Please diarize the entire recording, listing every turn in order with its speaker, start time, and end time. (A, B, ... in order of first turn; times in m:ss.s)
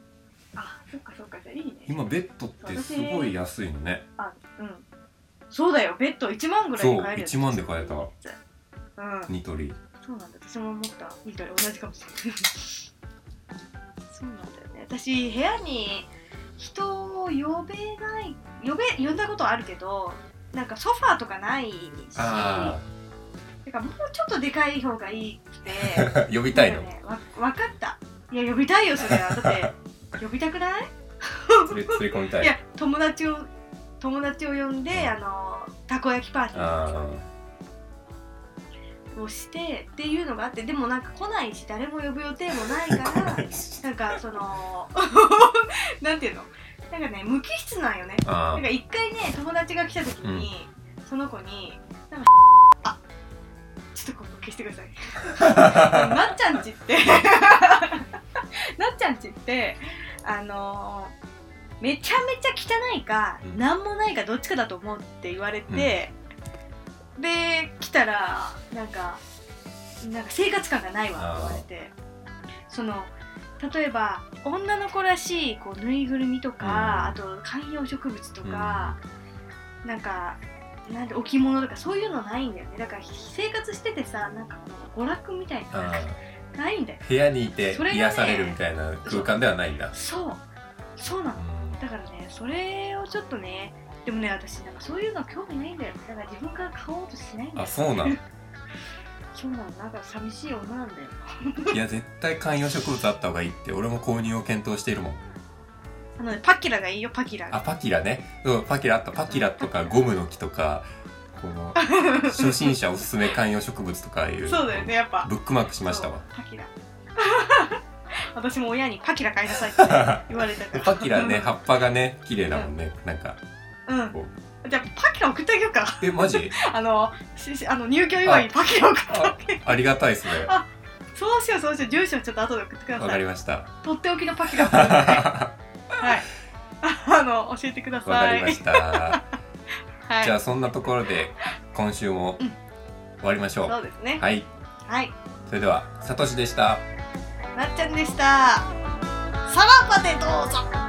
0:00.5-0:02.0 A
0:01.9-0:04.0 B
0:02.6-0:03.3 A
0:04.2-0:04.8 A
0:05.5-0:08.4 A
0:06.8-0:08.1 B
0:09.0-0:09.3 A
0:09.3-0:09.8 B
0:10.0-0:12.9 A
0:14.1-0:22.8 A
0:22.1-0:22.8 B
0:23.6-0:33.5 A
0:25.7-0:26.9 B
0:29.1-0:29.7 B
0:31.7-0:32.6 B
0:34.0-0:37.1 A
0:36.5-0:37.2 B
0:39.1-0:52.3 A
0:42.7-0:43.6 B
0:48.2-0:48.6 B
0:50.2-0:50.5 B
0:53.9-0:58.1 A
0:55.4-0:56.2 B
0:58.8-1:01.1 A
1:01.8-1:06.1 A
1:05.7-1:05.9 B
1:07.2-1:09.2 A
1:10.0-1:11.9 A
1:11.2-1:11.6 B
1:12.7-1:19.0 A
1:16.6-1:17.2 B
1:18.4-1:19.0 B
1:19.8-1:27.0 A
1:25.7-1:26.2 B
1:27.0-1:29.9 B
1:27.7-1:29.3 A
1:29.9-1:30.4 A
1:31.0-1:38.2 A
1:31.4-1:31.8 B
1:37.5-1:38.2 B
1:39.3-1:41.8 A
1:41.7-1:45.2 B
1:46.2-1:47.6 A
1:47.5-1:56.2 B
1:49.3-1:49.6 A
1:51.8-1:52.8 A
1:54.5-1:55.3 A
1:55.8-1:57.8 A
1:58.3-2:01.4 A
1:59.8-2:03.4 B
2:03.9-2:09.7 A
2:06.0-2:06.6 B
2:08.2-2:08.5 B
2:09.1-2:10.5 B
2:10.3-2:13.2 A
2:13.0-2:13.7 B
2:13.8-2:15.3 A
2:14.6-2:15.5 B
2:16.0-2:16.3 A
2:16.8-2:19.3 A
2:18.0-2:19.2 B
2:20.1-2:20.4 A
2:20.2-2:22.4 B
2:23.2-2:24.5 B
2:23.6-2:24.2 A
2:24.9-2:25.1 A
2:25.5-2:26.8 B
2:27.5-2:28.7 A
2:29.5-2:30.7 A